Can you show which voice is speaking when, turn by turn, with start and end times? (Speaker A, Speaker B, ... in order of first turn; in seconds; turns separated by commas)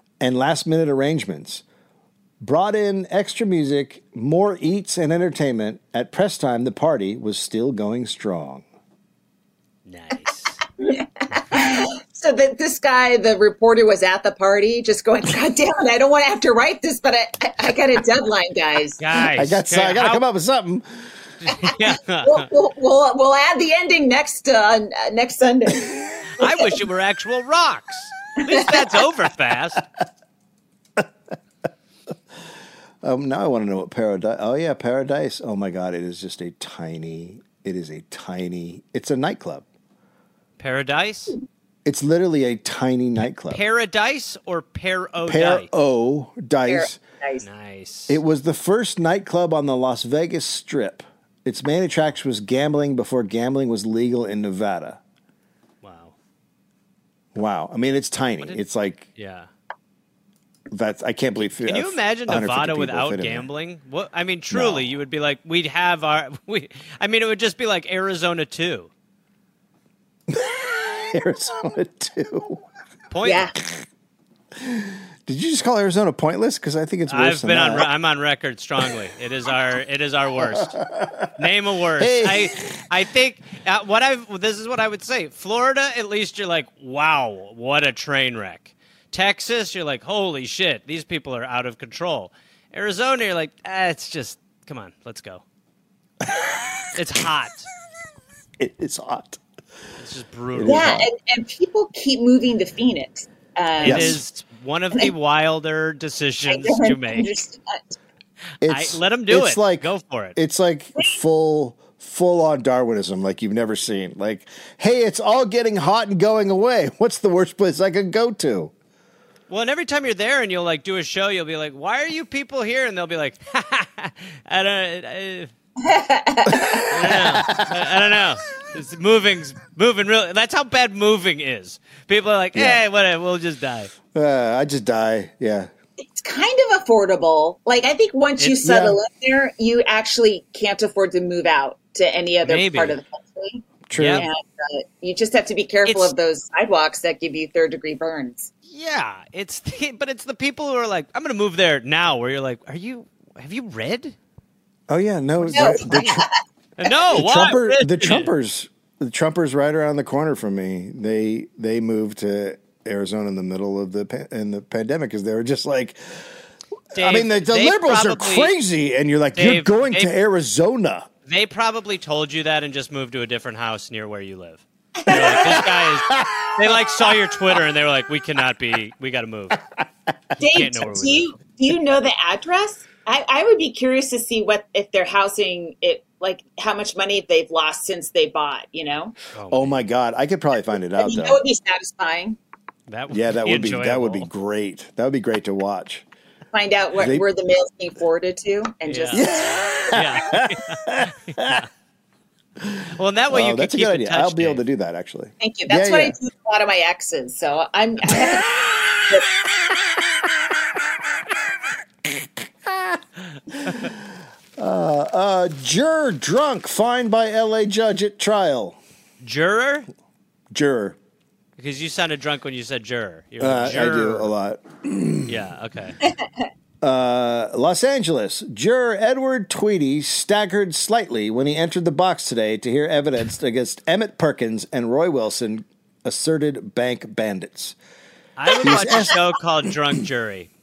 Speaker A: 0.2-1.6, Speaker A: 2.4-8.6, Speaker B: 9.8-10.6, Speaker C: 10.8-19.0, Speaker B: 19.0-20.2, Speaker A: 19.3-21.1, Speaker B: 21.4-22.5, Speaker C: 21.6-26.8, Speaker B: 26.4-29.8, Speaker C: 28.4-29.0, Speaker A: 33.0-39.6, Speaker B: 40.6-41.4, Speaker A: 41.8-43.6, Speaker B: 43.5-45.7, Speaker A: 45.2-47.0, Speaker C: 46.7-47.4, Speaker B: 47.4-48.2, Speaker A: 48.1-55.0, Speaker B: 55.8-56.1, Speaker A: 57.3-59.1, Speaker B: 59.2-59.5, Speaker A: 60.7-63.5, Speaker B: 61.6-68.9, Speaker A: 64.5-64.8, Speaker A: 70.3-72.6, Speaker B: 73.1-73.5, Speaker C: 73.2-73.5, Speaker A: 74.5-77.9, Speaker B: 77.1-80.8, Speaker A: 80.4-81.3, Speaker B: 81.3-95.4, Speaker A: 82.0-82.8, Speaker A: 96.2-96.9, Speaker B: 96.9-97.7, Speaker A: 98.6-99.4, Speaker B: 100.0-101.0, Speaker A: 100.5-101.1, Speaker C: 100.6-104.2, Speaker B: 103.8-107.3, Speaker A: 103.8-104.2, Speaker C: 106.5-108.0, Speaker A: 108.6-118.7, Speaker B: 108.6-110.4, Speaker B: 119.5-125.5, Speaker C: 125.8-126.8, Speaker A: 126.5-127.9, Speaker B: 126.9-133.9, Speaker A: 132.5-132.8, Speaker A: 134.1-135.7, Speaker C: 136.1-148.5, Speaker A: 138.6-139.0, Speaker B: 142.4-143.0, Speaker A: 143.9-144.3, Speaker B: 143.9-144.3, Speaker B: 145.8-146.1, Speaker B: 148.7-154.2, Speaker A: 154.9-156.2, Speaker B: 155.4-156.2, Speaker C: 155.5-156.3, Speaker B: 156.8-158.3, Speaker A: 157.1-166.2, Speaker A: 166.9-171.1, Speaker B: 166.9-168.5, Speaker B: 169.3-170.1, Speaker B: 171.2-179.6, Speaker C: 175.0-175.7, Speaker A: 175.3-177.1, Speaker C: 180.4-189.2, Speaker B: 180.4-181.3, Speaker B: 189.3-189.8, Speaker A: 189.5-191.4, Speaker C: 191.0-192.4, Speaker B: 192.9-194.3, Speaker A: 193.1-196.0, Speaker C: 196.5-199.6, Speaker A: 197.0-197.2, Speaker B: 198.8-199.3, Speaker A: 199.1-201.7, Speaker B: 199.8-201.7, Speaker A: 202.6-206.2, Speaker B: 202.9-204.6, Speaker C: 205.4-208.5, Speaker A: 208.2-209.2, Speaker A: 212.0-213.0, Speaker A: 213.5-214.0, Speaker A: 214.6-218.8, Speaker B: 219.2-219.9, Speaker A: 220.5-221.0, Speaker B: 221.6-224.3, Speaker A: 223.4-225.4, Speaker B: 225.2-226.0, Speaker A: 226.8-237.8, Speaker B: 238.4-240.5, Speaker C: 238.5-239.1, Speaker A: 238.6-239.2